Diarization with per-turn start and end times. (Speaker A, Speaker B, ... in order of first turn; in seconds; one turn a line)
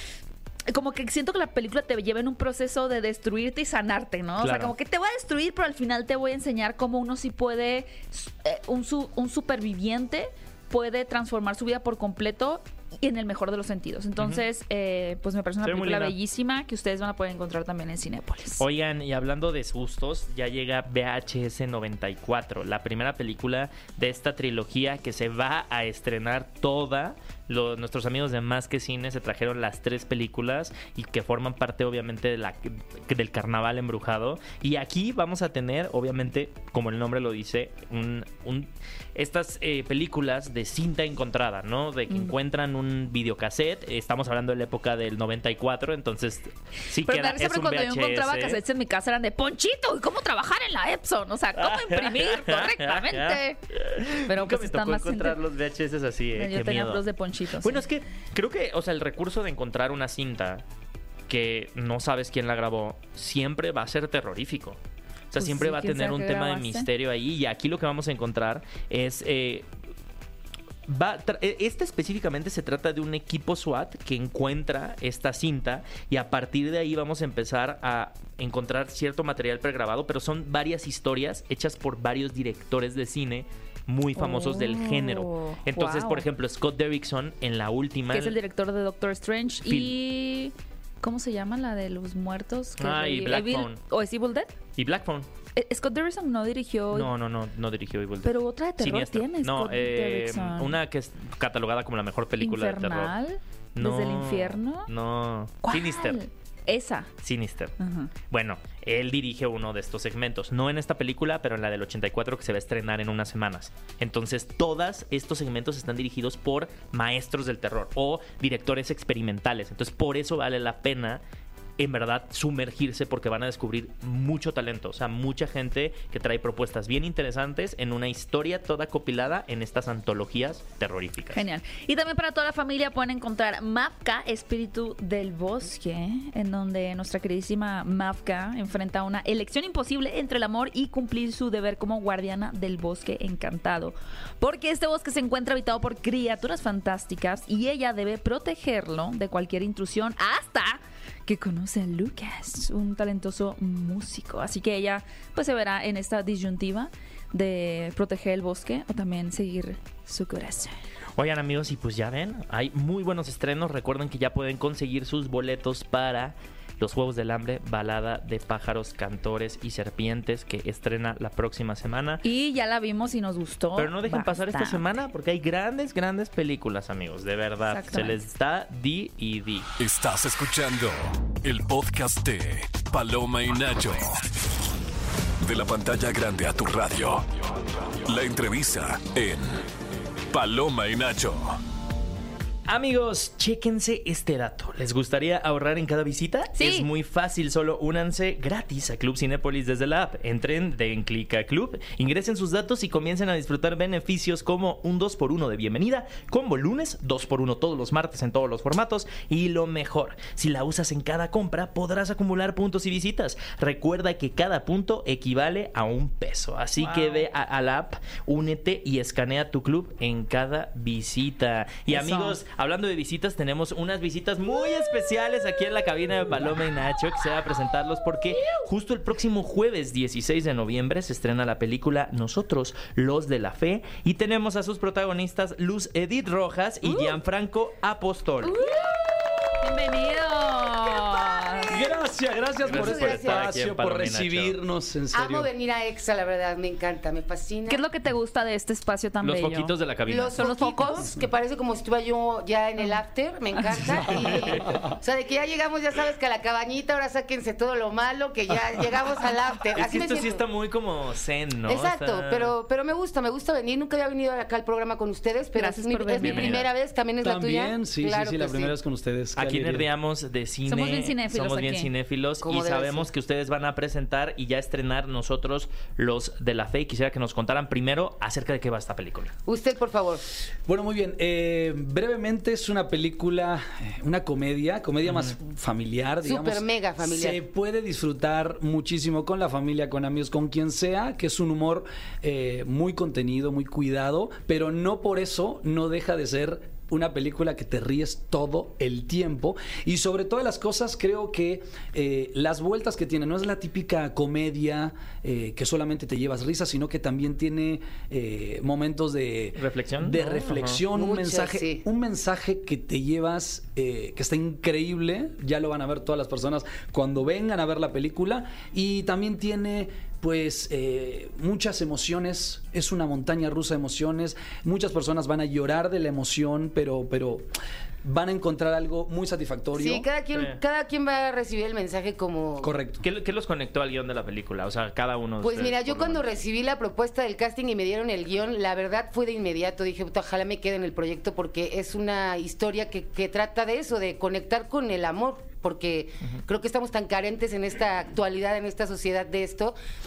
Speaker A: 0.7-18.6
Speaker B: 4.4-4.7
Speaker B: 14.2-14.4
Speaker B: 15.6-16.1
Speaker B: 18.6-48.6
Speaker A: 47.0-53.6
Speaker B: 51.5-57.0
Speaker A: 54.1-55.4
Speaker A: 56.3-57.8
Speaker B: 57.6-60.6
Speaker B: 61.3-64.8
Speaker B: 65.3-69.7
Speaker A: 65.4-66.9
Speaker B: 70.8-88.4
Speaker A: 84.1-86.2
Speaker A: 88.1-94.5
Speaker B: 89.7-89.9
Speaker B: 92.8-93.8
Speaker B: 94.8-95.3
Speaker A: 95.5-97.1
Speaker B: 96.9-103.1
Speaker A: 98.2-100.8
Speaker A: 102.4-104.9
Speaker B: 103.7-106.2
Speaker A: 105.6-107.1
Speaker B: 107.2-107.7
Speaker A: 107.8-108.1
Speaker B: 108.3-121.2
Speaker B: 121.8-131.4
Speaker A: 131.3-160.7
Speaker B: 161.2-172.2
Speaker A: 172.2-174.8
Speaker B: 173.8-179.7
Speaker A: 177.7-178.2
Speaker C: 179.8-184.2
Speaker C: 185.4-189.7
Speaker C: 190.3-191.6
Speaker B: 192.7-238.6
Speaker A: 196.5-196.9
Speaker A: 216.8-217.2
Speaker A: 221.9-222.4
Speaker A: 238.5-238.9
Speaker A: 239.6-241.8
Speaker D: 241.6-245.5
Speaker E: 242.6-243.5
Speaker B: 242.6-244.6
Speaker E: 245.1-247.8
Speaker A: 247.7-249.7
Speaker B: 249.2-250.4
Speaker E: 250.1-260.4
Speaker A: 250.3-251.1
Speaker B: 259.7-262.5
Speaker E: 261.6-268.7
Speaker A: 265.6-266.6
Speaker B: 266.2-266.7
Speaker D: 267.2-269.9
Speaker B: 269.4-279.3
Speaker A: 270.6-271.9
Speaker E: 272.4-273.1
Speaker E: 279.5-280.2
Speaker D: 280.7-327.5
Speaker B: 285.0-285.3
Speaker E: 286.2-287.4
Speaker B: 309.6-310.8
Speaker E: 310.9-311.8
Speaker D: 328.0-330.1
Speaker E: 329.7-332.7
Speaker D: 332.6-333.0
Speaker B: 333.0-336.2
Speaker E: 335.4-349.8